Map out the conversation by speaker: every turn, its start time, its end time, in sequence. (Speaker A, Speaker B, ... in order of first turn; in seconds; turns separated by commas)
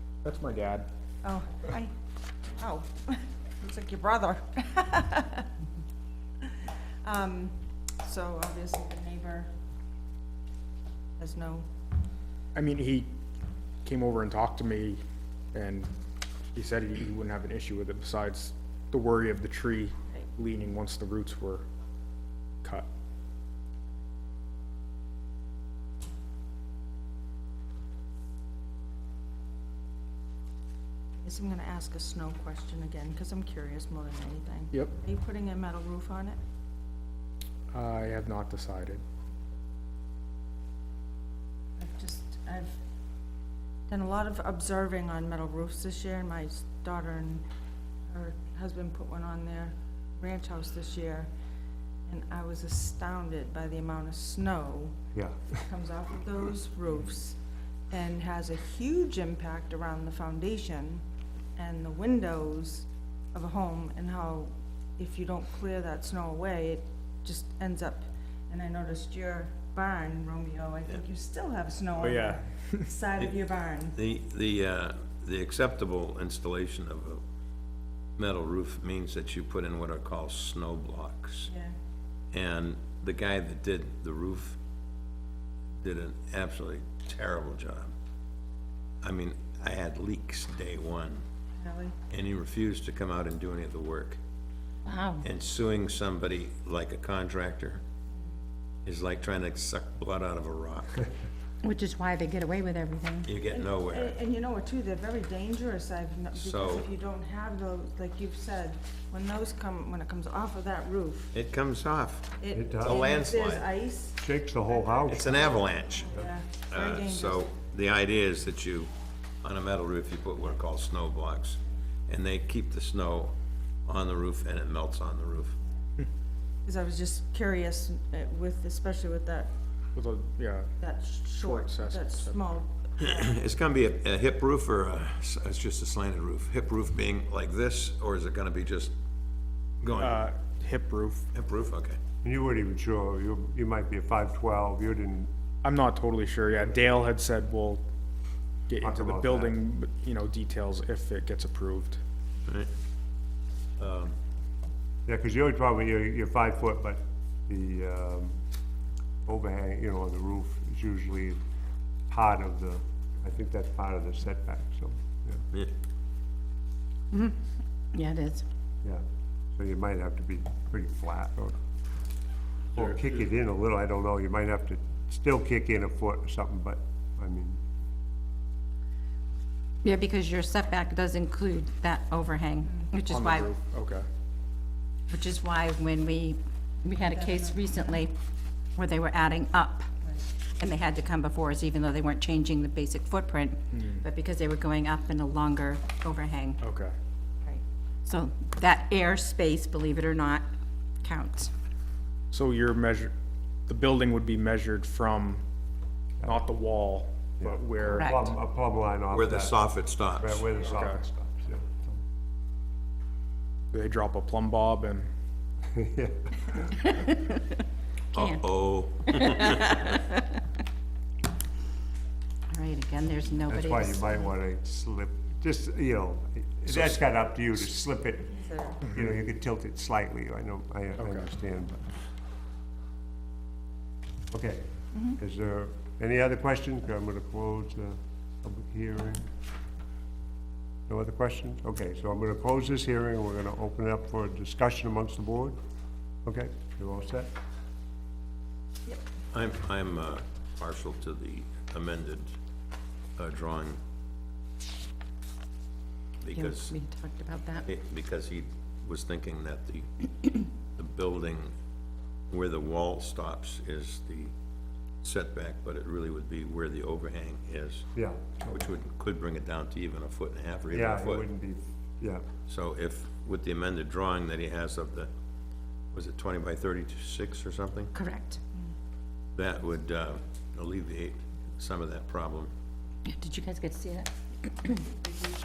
Speaker A: 0.2-0.9, Speaker B: 1.2-1.9, Speaker B: 2.6-5.5, Speaker B: 6.5-9.5, Speaker B: 11.2-11.7, Speaker A: 12.6-13.1, Speaker A: 13.8-15.0, Speaker A: 15.5-15.9, Speaker A: 16.6-21.7, Speaker A: 22.6-22.9, Speaker B: 31.2-36.4, Speaker A: 37.7-39.0, Speaker B: 41.8-42.8, Speaker B: 43.9-47.4, Speaker B: 48.1-51.3, Speaker B: 52.1-55.0, Speaker C: 55.1-55.6, Speaker B: 55.6-57.4, Speaker B: 57.9-61.0, Speaker B: 61.6-74.0, Speaker A: 72.0-72.9, Speaker D: 73.9-77.2, Speaker D: 78.2-81.5, Speaker B: 81.5-81.8, Speaker D: 82.3-84.6, Speaker D: 85.8-87.9, Speaker D: 89.0-91.2, Speaker B: 91.6-92.0, Speaker D: 92.1-94.2, Speaker E: 94.9-95.3, Speaker D: 95.2-97.8, Speaker D: 98.8-101.1, Speaker E: 101.6-103.3, Speaker D: 103.2-104.2, Speaker B: 103.5-111.3, Speaker D: 106.3-106.9, Speaker D: 111.3-113.7, Speaker B: 112.4-117.5, Speaker C: 112.5-113.0, Speaker C: 114.2-115.7, Speaker D: 115.1-116.1, Speaker D: 116.7-125.6, Speaker B: 126.7-129.5, Speaker A: 129.9-130.7, Speaker B: 130.8-133.2, Speaker A: 131.4-132.4, Speaker D: 133.0-138.9, Speaker D: 139.8-140.2, Speaker A: 139.9-141.3, Speaker D: 141.3-142.0, Speaker C: 142.2-145.3, Speaker A: 145.6-147.8, Speaker A: 148.7-152.0, Speaker C: 148.8-149.6, Speaker D: 153.8-154.2, Speaker C: 155.1-158.3, Speaker C: 159.2-161.4, Speaker C: 162.1-165.4, Speaker E: 167.1-167.4, Speaker E: 167.9-168.4, Speaker C: 169.6-171.6, Speaker C: 172.8-177.6, Speaker E: 179.8-183.5, Speaker B: 182.7-182.9, Speaker A: 183.1-184.1, Speaker E: 185.1-188.1, Speaker B: 187.0-188.0, Speaker E: 188.8-189.9, Speaker E: 190.6-196.6, Speaker A: 193.7-194.1, Speaker A: 196.6-196.9, Speaker E: 198.1-200.4, Speaker E: 201.0-201.5, Speaker A: 202.3-203.1, Speaker A: 203.7-205.4, Speaker A: 206.2-208.1, Speaker C: 207.4-212.0, Speaker E: 207.9-208.3, Speaker D: 209.1-210.5, Speaker A: 210.6-211.0, Speaker A: 213.7-215.1, Speaker C: 215.7-216.8, Speaker E: 216.9-217.4, Speaker E: 218.1-218.5, Speaker D: 218.1-220.0, Speaker E: 219.0-220.4, Speaker E: 222.5-224.3, Speaker C: 223.5-232.0, Speaker D: 226.7-226.9, Speaker B: 228.3-228.8, Speaker A: 231.0-231.3, Speaker C: 234.3-239.3, Speaker B: 234.9-235.2, Speaker C: 240.9-245.6, Speaker C: 246.2-247.3, Speaker D: 249.3-252.3, Speaker D: 253.2-253.8, Speaker D: 256.2-256.7, Speaker E: 256.3-257.7, Speaker D: 257.6-260.1, Speaker D: 260.7-261.5, Speaker D: 262.3-264.3, Speaker D: 265.0-267.9, Speaker C: 267.9-268.7, Speaker D: 268.5-271.2, Speaker C: 270.7-272.3, Speaker D: 272.5-275.1, Speaker D: 275.9-277.9, Speaker E: 277.9-278.4, Speaker D: 279.4-282.5, Speaker E: 283.1-284.9